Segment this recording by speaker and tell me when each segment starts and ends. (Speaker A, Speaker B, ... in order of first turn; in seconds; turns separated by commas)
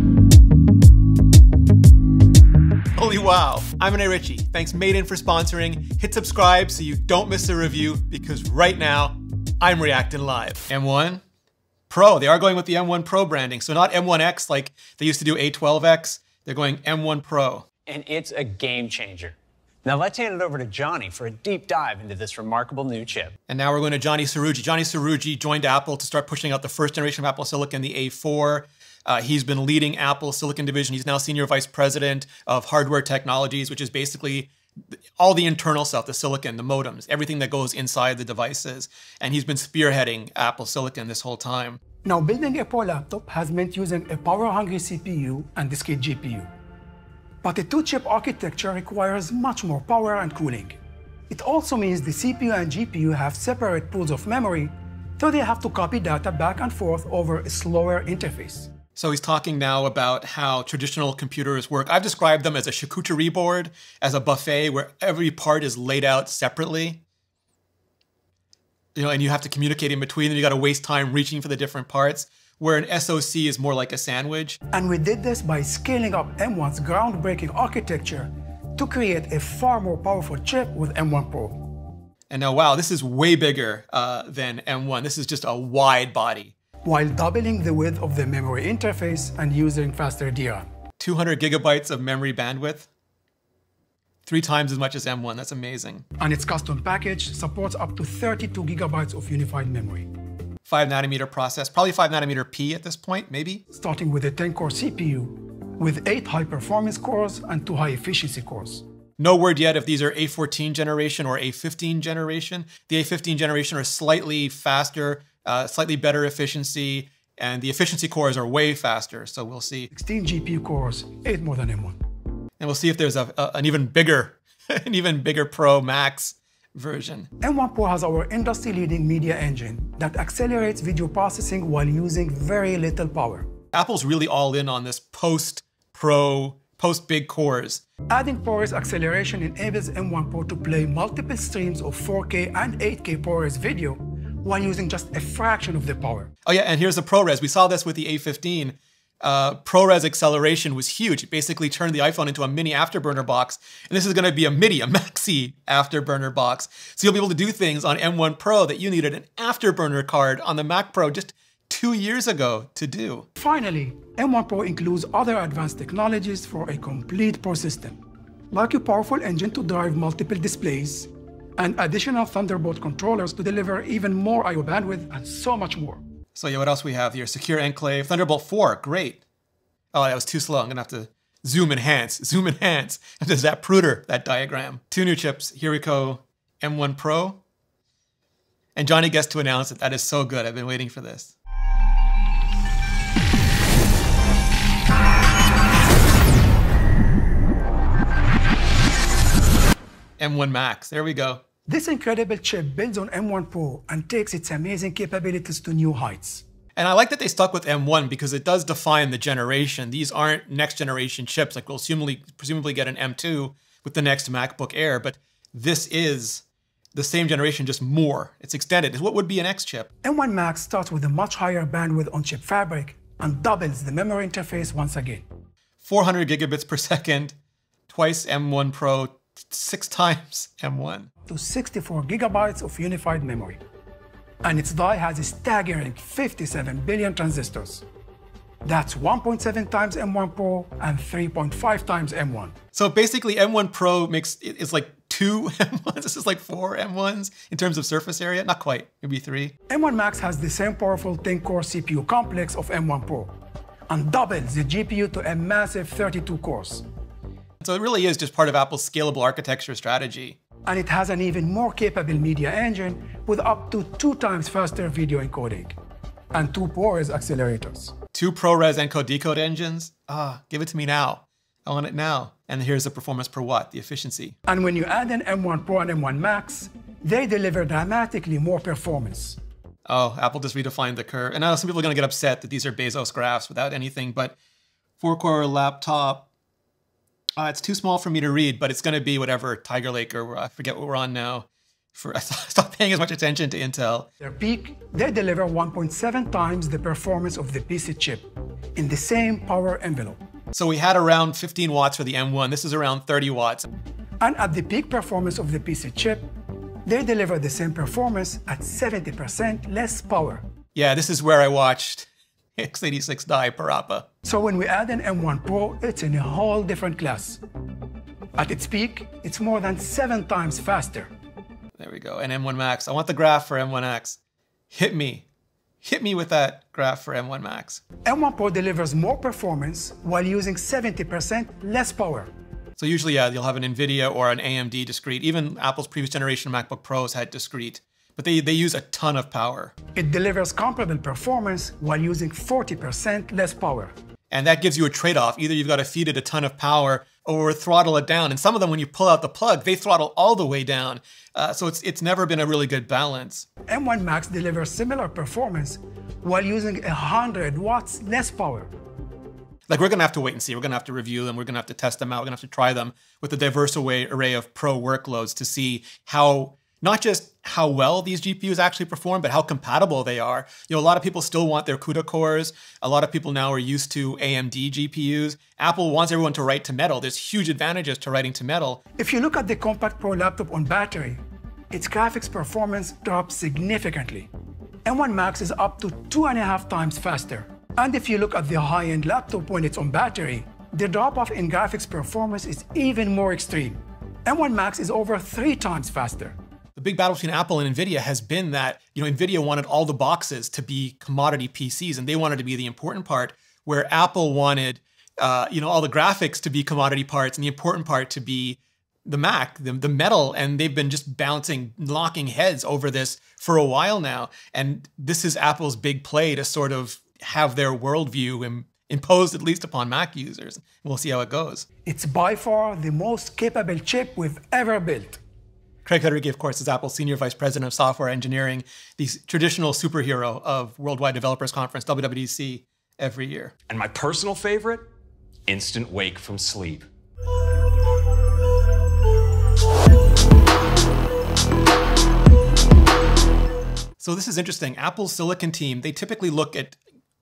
Speaker A: 3.0-11.2, Speaker A: 11.9-17.7, Speaker B: 17.9-23.4, Speaker A: 23.5-34.5, Speaker A: 35.2-41.8, Speaker C: 42.0-46.5, Speaker C: 47.4-50.8, Speaker C: 51.3-58.7, Speaker A: 59.0-67.0, Speaker A: 69.0-74.6, Speaker C: 74.7-81.8, Speaker A: 82.3-86.5, Speaker C: 86.8-90.7, Speaker A: 91.0-92.9, Speaker A: 94.2-96.1, Speaker C: 96.2-100.1, Speaker A: 100.6-103.7, Speaker C: 103.7-108.8, Speaker A: 109.2-119.9, Speaker C: 119.9-122.0, Speaker A: 122.6-127.3, Speaker C: 127.4-133.5, Speaker A: 133.7-137.8, Speaker C: 138.1-146.3, Speaker A: 146.4-163.3, Speaker C: 163.4-168.0, Speaker C: 168.5-176.0, Speaker A: 176.3-179.2, Speaker A: 179.9-187.4, Speaker A: 188.8-191.3, Speaker A: 200.2-201.4, Speaker C: 201.7-206.4, Speaker A: 206.8-219.9, Speaker C: 220.0-225.2, Speaker A: 225.8-227.4, Speaker A: 227.9-231.1, Speaker C: 231.3-233.6, Speaker C: 234.4-237.8, Speaker C: 238.6-242.6, Speaker A: 242.7-249.6, Speaker C: 249.7-253.3, Speaker C: 253.9-256.9, Speaker A: 257.6-260.4, Speaker C: 260.6-265.8, Speaker C: 266.3-267.9, Speaker A: 268.1-274.4, Speaker C: 274.5-279.4, Speaker A: 279.9-284.4, Speaker A: 285.0-286.3, Speaker A: 287.4-294.1, Speaker C: 294.2-300.2, Speaker A: 300.5-303.7, Speaker C: 304.2-306.3, Speaker C: 306.9-310.4, Speaker A: 310.7-314.1, Speaker C: 314.2-317.4, Speaker C: 318.4-321.1, Speaker A: 321.8-324.2, Speaker A: 324.7-325.3, Speaker A: 325.8-327.8, Speaker C: 328.1-332.3, Speaker A: 332.8-339.8, Speaker C: 339.9-343.9, Speaker A: 344.3-353.5, Speaker C: 353.7-358.7, Speaker A: 359.7-378.8, Speaker C: 379.0-384.3, Speaker C: 384.9-396.4, Speaker A: 396.8-421.7, Speaker C: 421.9-425.2, Speaker A: 425.9-433.5, Speaker D: 433.7-434.9, Speaker D: 435.5-436.9, Speaker A: 444.0-446.8